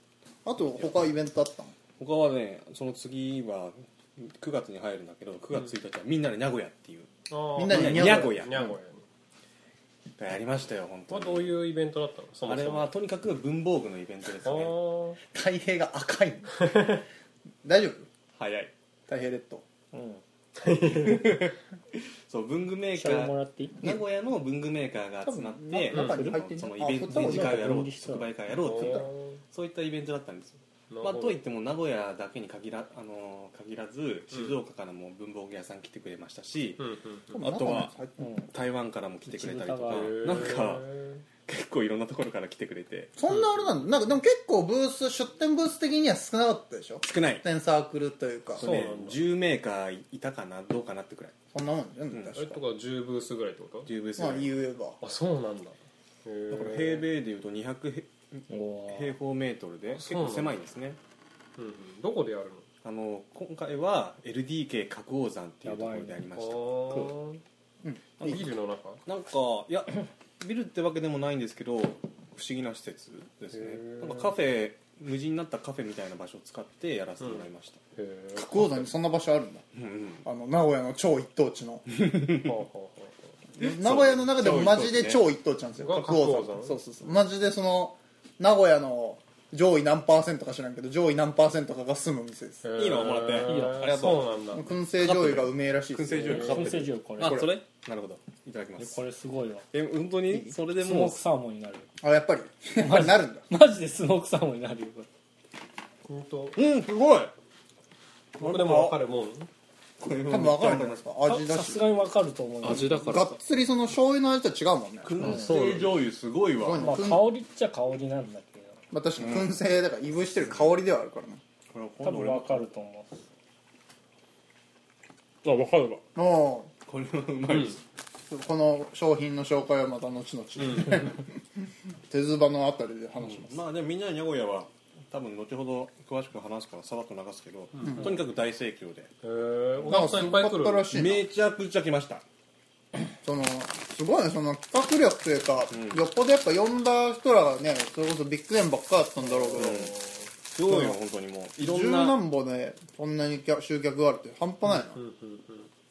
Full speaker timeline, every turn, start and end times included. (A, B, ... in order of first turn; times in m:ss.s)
0:00.4-0:01.7 A
0:00.8-0:01.1 B
0:02.0-0:07.1 B
0:07.3-0:09.0 C
0:07.6-0:08.7 A
0:07.7-0:08.7 B
0:10.2-0:11.6 B
0:11.1-0:12.9 C
0:12.4-0:14.7 B
0:14.4-0:15.2 C
0:15.3-0:16.5 A
0:16.6-0:17.0 C
0:17.6-0:18.1 A
0:18.4-0:18.7 B
0:19.1-0:19.6 A
0:19.9-0:20.2 D
0:20.6-0:21.5 C
0:20.9-0:21.5 B
0:22.3-0:36.8 B
0:22.9-0:23.8 D
0:25.3-0:27.8 A
0:25.9-0:26.5 D
0:27.0-0:28.3 D
0:28.6-0:29.4 C
0:30.9-0:31.4 C
0:36.8-0:37.6 C
0:37.3-0:38.3 A
0:37.4-0:37.9 B
0:38.2-0:38.5 D
0:38.5-0:40.9 B
0:39.3-0:40.4 D
0:39.9-0:41.2 C
0:41.5-0:43.1 B
0:43.2-0:48.6 A
0:43.3-0:43.7 C
0:47.0-0:47.4 B
0:48.6-0:51.4 B
0:48.6-0:49.2 C
0:51.5-0:52.6 A
0:52.4-0:53.9 C
0:53.9-0:54.5 B
0:54.2-0:55.0 A
0:55.0-0:57.0 C
0:56.5-1:01.0 B
0:58.5-0:59.2 D
1:00.0-1:00.6 C
1:01.6-1:02.7 C
1:02.8-1:07.0 B
1:05.6-1:06.3 D
1:06.4-1:07.4 C
1:07.8-1:08.4 A
1:08.2-1:09.0 C
1:09.0-1:17.8 B
1:13.5-1:14.3 C
1:17.2-1:18.9 C
1:18.4-1:19.6 A
1:19.7-1:20.2 B
1:20.2-1:21.9 A
1:21.9-1:22.6 B
1:22.4-1:23.3 C
1:23.6-1:32.6 A
1:23.6-1:25.2 B
1:25.8-1:26.8 C
1:32.6-1:34.7 C
1:32.8-1:34.4 B
1:33.4-1:34.0 D
1:34.5-1:37.5 A
1:35.0-1:39.0 B
1:36.3-1:37.4 D
1:38.8-1:39.6 D
1:39.7-1:41.2 B
1:40.8-1:41.9 D
1:42.0-1:43.5 A
1:42.8-1:45.1 D
1:46.1-1:46.6 C
1:46.6-1:47.3 B
1:48.4-1:49.5 C
1:48.4-1:48.9 B
1:50.0-1:51.0 B
1:50.3-1:51.8 A
1:51.3-1:53.3 D
1:52.6-1:53.4 C
1:53.0-1:55.1 A
1:55.0-1:57.0 B
1:55.2-1:55.9 D
1:56.6-1:57.3 A
1:56.7-1:58.8 D
1:58.9-2:01.4 A
1:59.2-1:59.5 B
2:01.7-2:02.7 B
2:02.0-2:03.2 D
2:05.5-2:06.0 C
2:06.2-2:06.7 A
2:06.8-2:07.8 B
2:08.3-2:11.2 A
2:10.7-2:11.0 C
2:12.1-2:13.6 A
2:13.2-2:19.1 B
2:17.8-2:18.1 C
2:19.2-2:20.9 C
2:19.9-2:21.2 A
2:20.9-2:22.2 B
2:23.2-2:29.8 A
2:25.7-2:26.0 B
2:29.2-2:30.3 C
2:29.6-2:30.0 B
2:30.5-2:32.2 B
2:30.6-2:31.0 A
2:31.6-2:35.0 A
2:34.6-2:35.7 C